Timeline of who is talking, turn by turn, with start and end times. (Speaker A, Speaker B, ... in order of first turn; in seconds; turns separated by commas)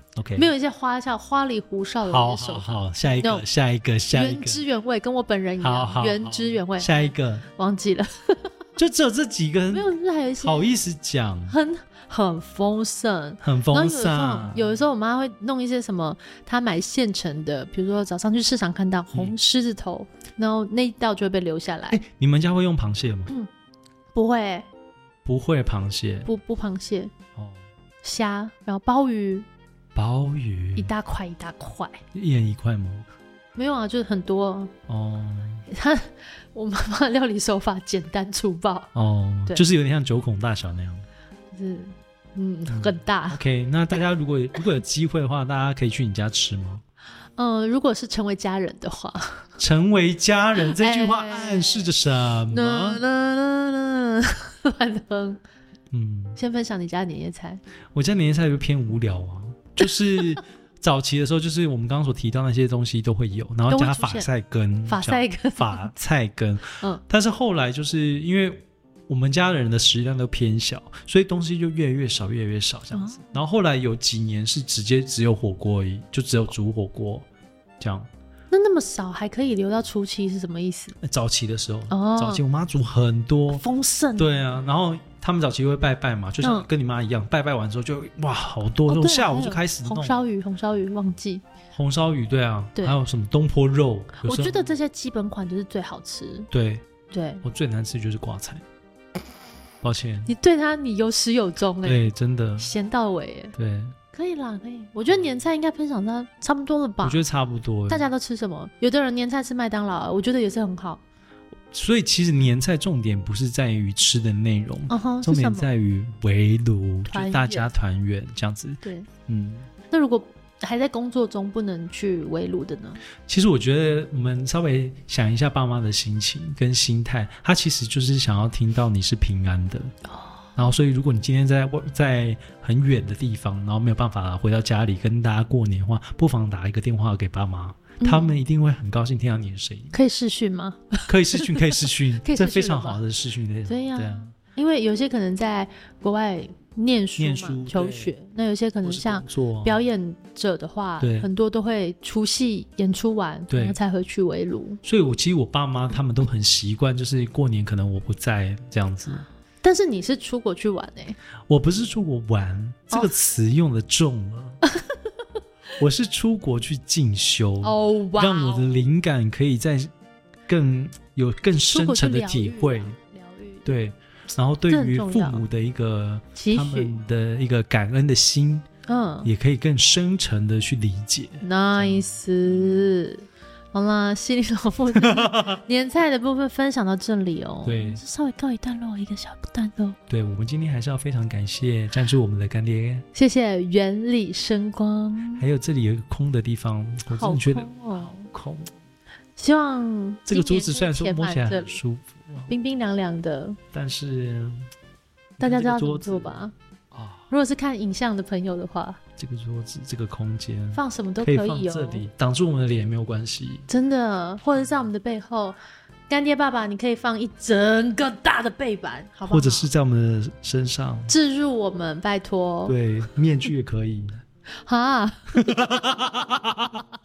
Speaker A: 0.2-0.5, Speaker B: 0.4-3.5, Speaker A: 2.1-4.6, Speaker B: 4.1-8.5, Speaker A: 5.6-7.5, Speaker A: 8.8-9.9, Speaker B: 9.7-10.8, Speaker A: 10.4-11.6, Speaker B: 11.5-22.0, Speaker A: 13.4-14.7, Speaker A: 21.9-23.3, Speaker B: 24.1-24.7, Speaker A: 25.2-26.3, Speaker B: 26.2-27.1, Speaker A: 27.4-27.6, Speaker B: 28.0-29.5, Speaker A: 29.9-30.9, Speaker B: 30.8-32.0, Speaker A: 32.1-33.1, Speaker B: 33.6-34.7, Speaker A: 34.9-35.7, Speaker B: 35.7-38.9, Speaker A: 39.0-41.0, Speaker B: 41.5-43.4, Speaker A: 42.7-46.8, Speaker B: 47.4-49.5, Speaker A: 49.6-53.0, Speaker B: 50.6-52.0, Speaker B: 52.5-55.4, Speaker A: 55.9-56.4, Speaker B: 56.4-57.6, Speaker A: 57.9-77.3, Speaker B: 59.8-60.3, Speaker B: 63.7-64.3, Speaker B: 64.9-65.9, Speaker B: 72.9-73.4, Speaker A: 77.8-78.1, Speaker B: 78.5-81.0, Speaker A: 81.0-83.6, Speaker B: 81.9-82.4, Speaker B: 83.5-84.4, Speaker A: 84.2-90.2, Speaker B: 86.4-86.7, Speaker B: 88.9-91.4, Speaker A: 91.7-94.8, Speaker B: 94.2-96.5, Speaker A: 96.5-96.8, Speaker B: 97.1-97.4, Speaker A: 97.4-98.6, Speaker A: 99.8-100.3, Speaker B: 100.3-103.5, Speaker A: 101.8-102.7, Speaker A: 103.6-104.0, Speaker B: 104.1-107.2, Speaker A: 107.0-108.1, Speaker B: 107.9-111.0, Speaker A: 111.7-119.7, Speaker B: 114.9-115.7, Speaker B: 117.1-117.7, Speaker B: 118.8-119.1, Speaker B: 119.9-123.0, Speaker A: 123.2-129.9, Speaker B: 130.1-130.6, Speaker A: 130.6-140.0, Speaker B: 138.0-138.4, Speaker B: 139.9-143.0, Speaker A: 141.1-144.3, Speaker B: 143.7-154.8, Speaker A: 147.2-148.1, Speaker A: 148.8-149.8, Speaker A: 151.0-151.3, Speaker A: 153.5-153.8, Speaker A: 154.8-159.3, Speaker B: 159.6-161.2, Speaker A: 161.5-164.6, Speaker B: 164.7-164.9, Speaker A: 165.8-169.9, Speaker B: 167.6-168.8, Speaker A: 170.5-173.0, Speaker B: 171.6-173.7, Speaker A: 173.7-178.7, Speaker B: 174.7-175.4, Speaker B: 176.3-176.9, Speaker B: 178.9-179.3, Speaker A: 179.2-182.9, Speaker B: 181.4-190.0, Speaker A: 185.0-185.6, Speaker A: 187.6-188.0, Speaker A: 190.1-193.1, Speaker B: 193.2-195.4, Speaker A: 195.4-198.7, Speaker B: 197.1-198.3, Speaker B: 199.4-201.8, Speaker A: 200.3-202.5, Speaker B: 202.5-203.6, Speaker A: 203.7-204.7, Speaker A: 205.4-206.4, Speaker B: 205.4-206.5, Speaker A: 206.9-207.3, Speaker B: 207.3-209.0, Speaker A: 209.2-213.7, Speaker B: 210.7-212.1, Speaker B: 213.7-215.6, Speaker B: 216.1-219.7, Speaker A: 219.3-221.1, Speaker B: 221.1-222.8, Speaker A: 222.7-224.2, Speaker B: 224.7-225.5, Speaker A: 225.3-226.9